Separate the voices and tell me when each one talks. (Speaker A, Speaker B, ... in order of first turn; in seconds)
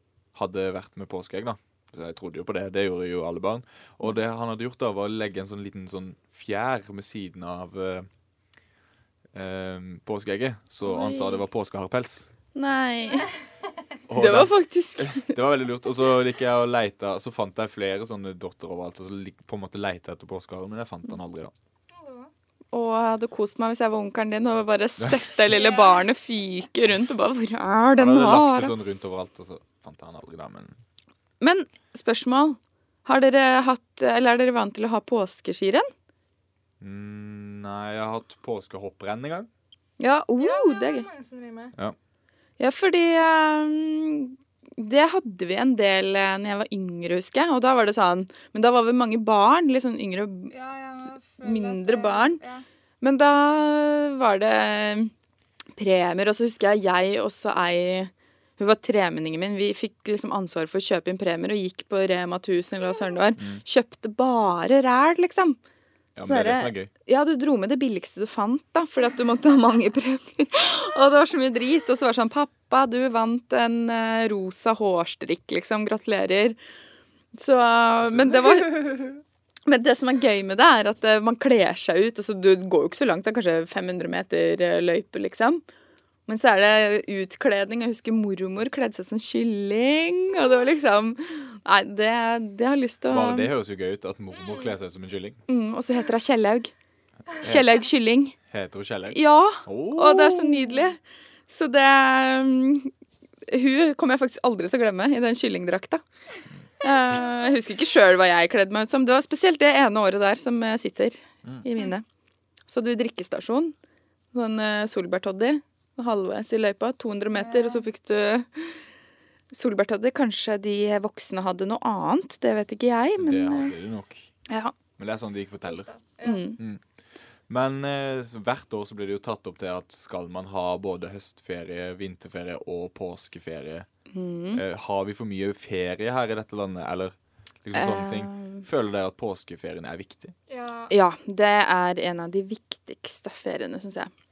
Speaker A: 0.3-8.1, 9.3-12.3, 14.1-21.5, 25.0-25.3, 28.0-30.8, 36.8-39.5, 63.4-63.6, 66.2-66.9, 93.1-95.4, 97.4-97.8, 98.5-100.8, 123.2-124.3, 125.0-125.9, 127.5-133.9, 134.5-140.3
Speaker B: 10.8-11.4, 12.6-13.3, 14.1-15.4, 22.7-28.7, 31.4-35.9, 40.0-41.1, 42.6-50.5, 51.4-52.4, 53.0-55.1, 55.8-65.6, 66.2-76.6, 77.3-85.6, 86.3-93.5, 95.5-96.7, 97.4-98.4, 99.1-102.9, 103.5-106.0, 106.8-112.0, 112.7-113.8, 114.3-118.8, 119.5-123.7, 124.5-124.8, 126.2-126.6, 134.1-134.6, 137.7-138.6, 140.9-144.1
Speaker C: 21.9-22.3, 25.5-26.0, 40.4-41.7, 50.5-52.6, 94.4-94.7, 117.3-117.8, 125.7-126.5, 140.5-140.9